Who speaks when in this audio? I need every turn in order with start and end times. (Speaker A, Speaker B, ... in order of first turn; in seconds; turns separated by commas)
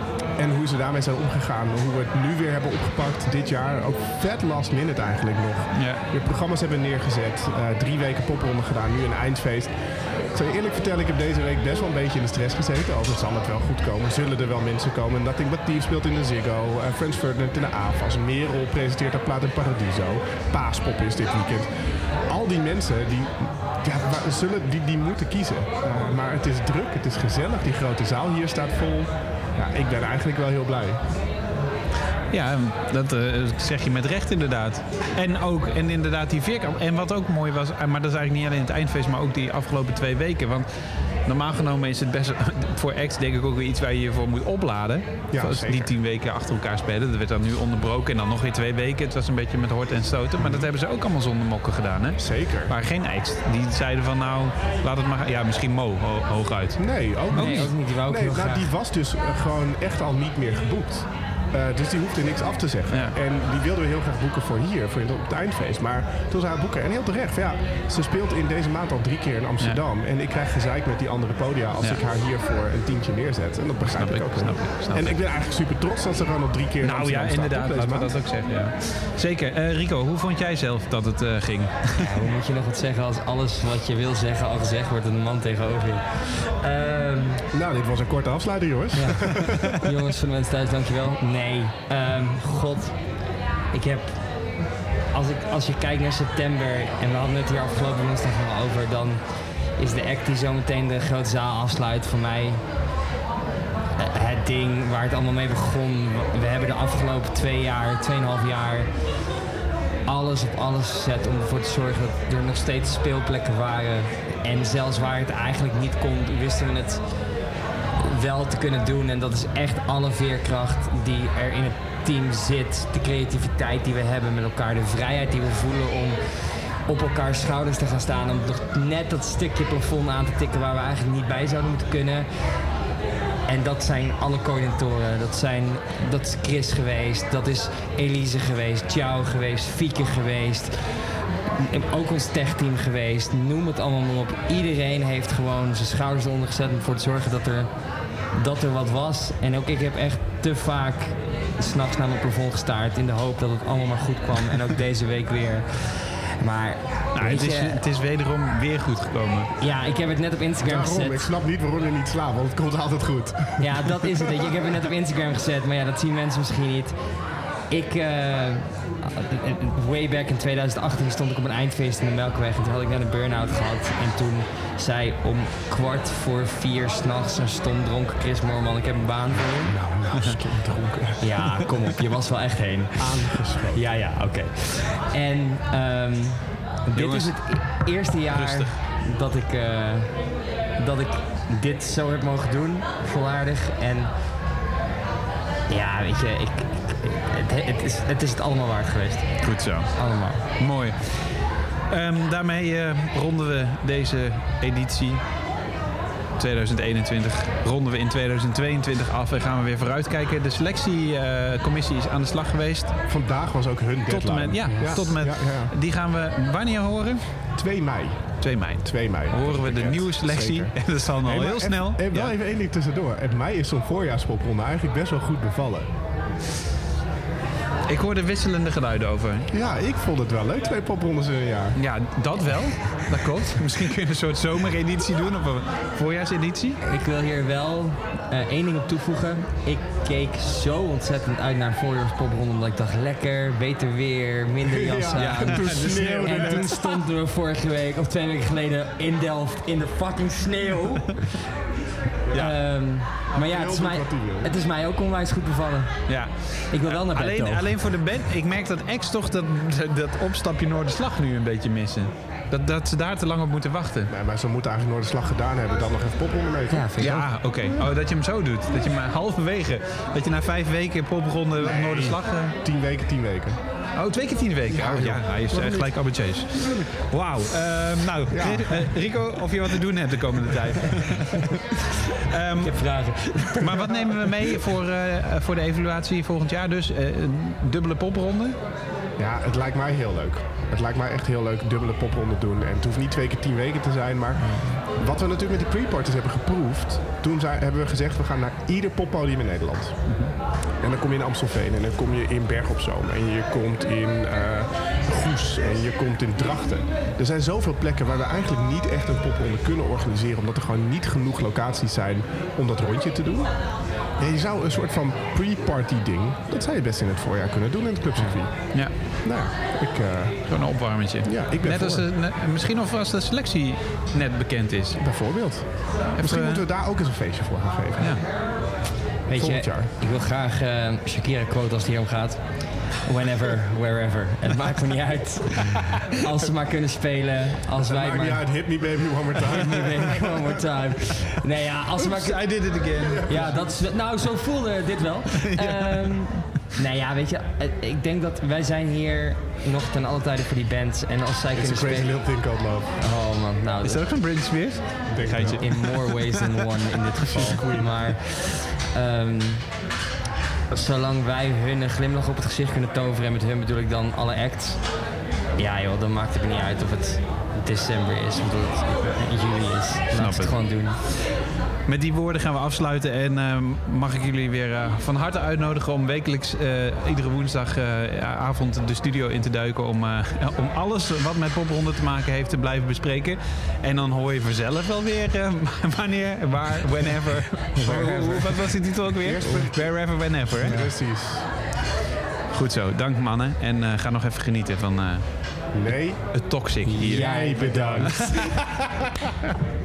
Speaker A: 0.4-9.8, Speaker B: 5.7-6.0, Speaker A: 10.3-21.7, Speaker A: 22.3-31.0, Speaker B: 32.3-57.9, Speaker A: 45.3-45.9, Speaker A: 50.4-50.7, Speaker A: 52.2-52.7, Speaker A: 56.8-78.2, Speaker C: 57.3-58.7, Speaker B: 62.9-63.2, Speaker B: 73.8-75.2, Speaker B: 76.8-81.9, Speaker C: 82.0-87.4, Speaker A: 87.5-89.7, Speaker C: 88.9-102.6, Speaker C: 104.0-109.2, Speaker C: 110.0-117.3, Speaker C: 118.0-132.7, Speaker C: 133.5-157.8, Speaker B: 157.1-159.5, Speaker C: 159.6-161.3, Speaker A: 160.6-163.8, Speaker C: 163.6-167.2, Speaker C: 167.7-179.7, Speaker A: 179.6-181.3, Speaker B: 180.1-180.4, Speaker C: 181.2-194.1, Speaker A: 183.0-184.0, Speaker B: 186.9-188.8, Speaker C: 195.7-200.4, Speaker B: 199.4-205.2, Speaker B: 206.4-213.0, Speaker A: 213.1-215.7, Speaker B: 214.0-217.4, Speaker A: 217.5-225.9, Speaker B: 218.4-222.3, Speaker B: 227.9-229.5, Speaker A: 229.5-231.8, Speaker B: 231.7-236.8, Speaker C: 236.8-251.3, Speaker A: 244.7-246.9, Speaker B: 245.1-246.7, Speaker C: 252.3-257.7, Speaker A: 253.3-254.5, Speaker B: 256.1-264.1, Speaker A: 264.1-266.9, Speaker C: 266.7-267.3, Speaker B: 267.0-272.6, Speaker A: 271.6-273.6, Speaker B: 273.9-281.4, Speaker A: 274.7-276.8, Speaker A: 278.3-278.9, Speaker B: 282.3-288.6, Speaker C: 282.5-284.6, Speaker A: 289.2-300.1, Speaker B: 300.1-300.3, Speaker A: 300.8-320.6, Speaker B: 318.1-319.2, Speaker B: 320.4-325.0, Speaker A: 321.2-322.0, Speaker A: 325.0-328.3, Speaker B: 326.1-326.7, Speaker B: 328.0-328.2, Speaker C: 329.2-338.8, Speaker A: 329.3-329.9, Speaker A: 337.8-340.2, Speaker C: 339.5-354.3, Speaker B: 342.0-343.5, Speaker A: 343.0-343.7, Speaker B: 345.4-346.4, Speaker A: 351.5-353.0, Speaker B: 353.8-356.5, Speaker A: 355.1-355.7, Speaker C: 355.3-359.8, Speaker A: 357.3-357.9, Speaker C: 360.7-371.0, Speaker B: 370.1-371.1, Speaker B: 371.9-390.9, Speaker C: 387.8-388.4, Speaker A: 389.2-391.5, Speaker B: 392.5-395.7, Speaker A: 395.7-396.2, Speaker B: 396.3-398.3, Speaker C: 396.9-398.4, Speaker A: 397.2-398.2